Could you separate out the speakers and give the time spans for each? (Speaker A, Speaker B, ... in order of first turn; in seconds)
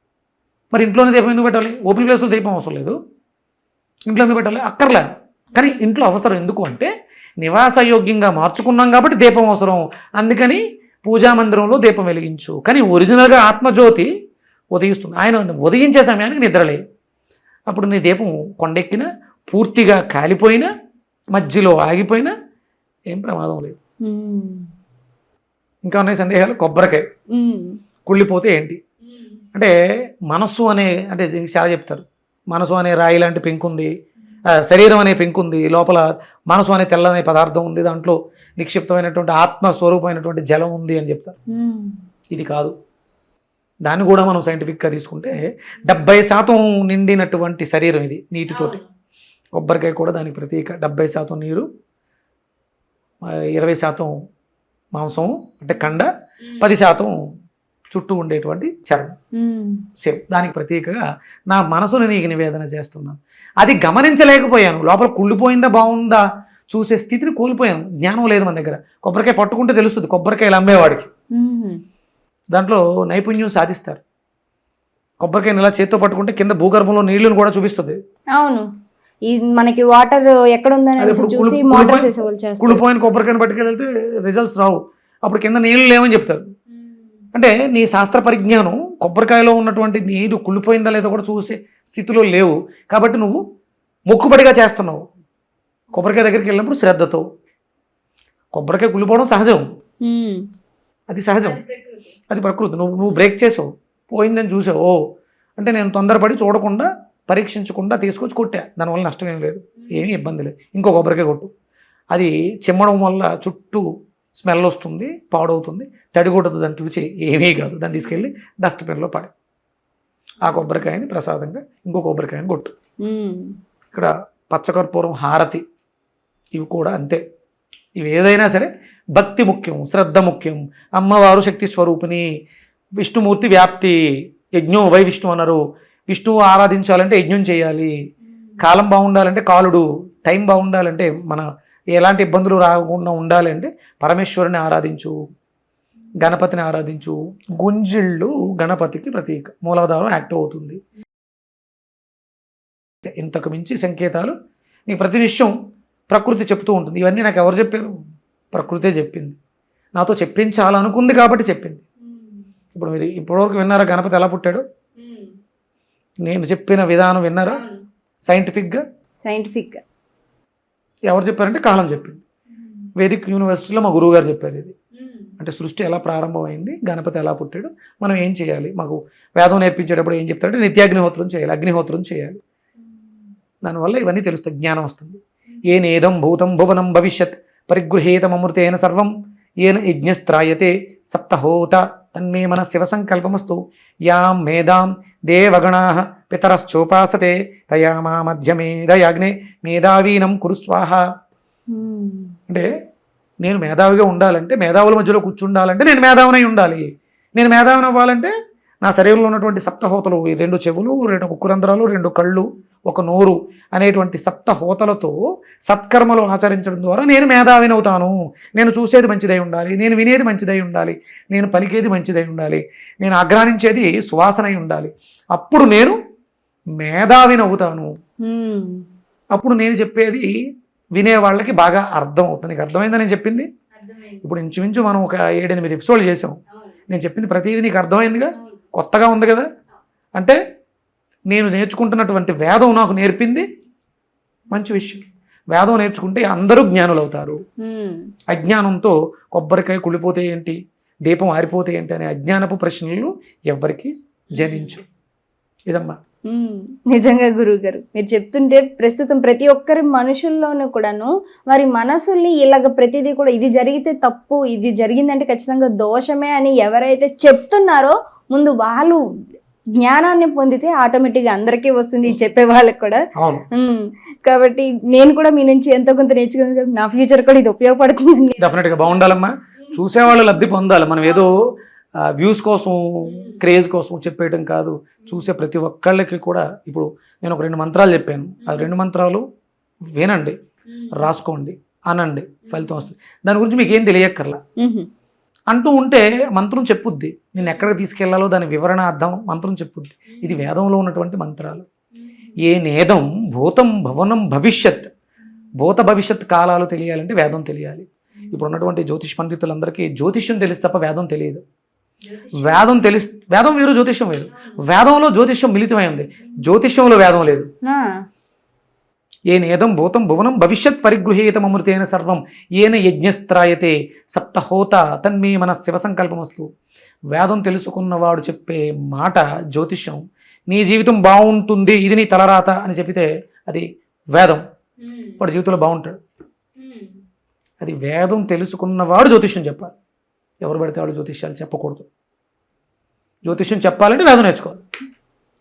Speaker A: 0.7-3.0, 4.1-5.0, 5.5-6.9, 7.4-14.1, 14.8-16.8, 17.7-20.7, 21.3-22.3, 23.1-23.8, 25.9-27.1, 28.1-28.8, 30.3-33.9, 34.6-41.4, 42.3-42.7, 43.9-48.8, 49.5-51.7, 53.3-54.1, 54.9-56.1, 56.6-57.1, 57.9-59.1, 60.0-71.1, 72.5-74.0, 75.2-78.0, 81.0-82.1, 82.6-86.4, 87.3-93.4, 94.1-95.0, 95.9-97.2, 98.5-99.7, 101.1-101.6, 102.3-105.0, 105.6-111.5, 112.1-113.9, 114.4-119.3, 120.4-122.7, 123.9-125.6, 126.5-127.2, 128.0-132.2, 133.0-134.0, 134.6-137.9, 138.6-145.2, 146.2-150.8, 153.1-154.3, 154.9-155.5, 156.1-157.9, 158.5-159.4, 160.0-161.8, 162.8-164.6, 166.2-167.6, 168.3-168.8, 171.1-172.2, 173.0-174.8, 175.4-182.4, 183.6-189.1, 189.6-201.0, 203.4-208.3, 208.8-215.1, 215.7-226.0, 226.8-227.9, 229.3-230.3, 231.0-233.5, 234.2-236.4, 236.9-239.5, 241.3-243.5, 244.5-247.4, 248.3-250.6, 251.1-254.8, 255.7-256.0, 273.2-273.4, 278.4-289.2, 290.0-290.4, 290.9-294.4, 295.5-301.7, 302.4-304.9, 305.6-311.4, 312.4-317.5, 319.3-326.5, 327.1-334.4, 335.2-336.0, 337.6-339.7, 340.4-341.9, 343.2-344.6
Speaker B: 24.0-24.7, 27.3-27.8, 41.5-42.0, 48.5-48.8, 59.4-59.9, 71.4-71.8, 78.4-78.7, 79.3-82.8, 100.0-100.4, 101.4-102.1, 109.8-110.1, 117.9-118.2, 120.5-120.9, 123.0-123.5, 162.1-162.4, 165.0-165.3, 167.5-167.8, 169.2-169.8, 175.0-175.3, 201.7-202.3, 228.2-228.8, 233.8-234.2, 247.6-248.0, 254.3-254.7, 256.3-269.0, 269.8-273.0, 273.5-278.5, 283.1-283.4, 288.4-288.7, 290.7-291.1, 292.5-292.9, 294.6-294.9, 297.4-297.7, 300.1-300.5, 312.1-312.7, 314.3-314.6, 334.8-335.2, 336.6-336.9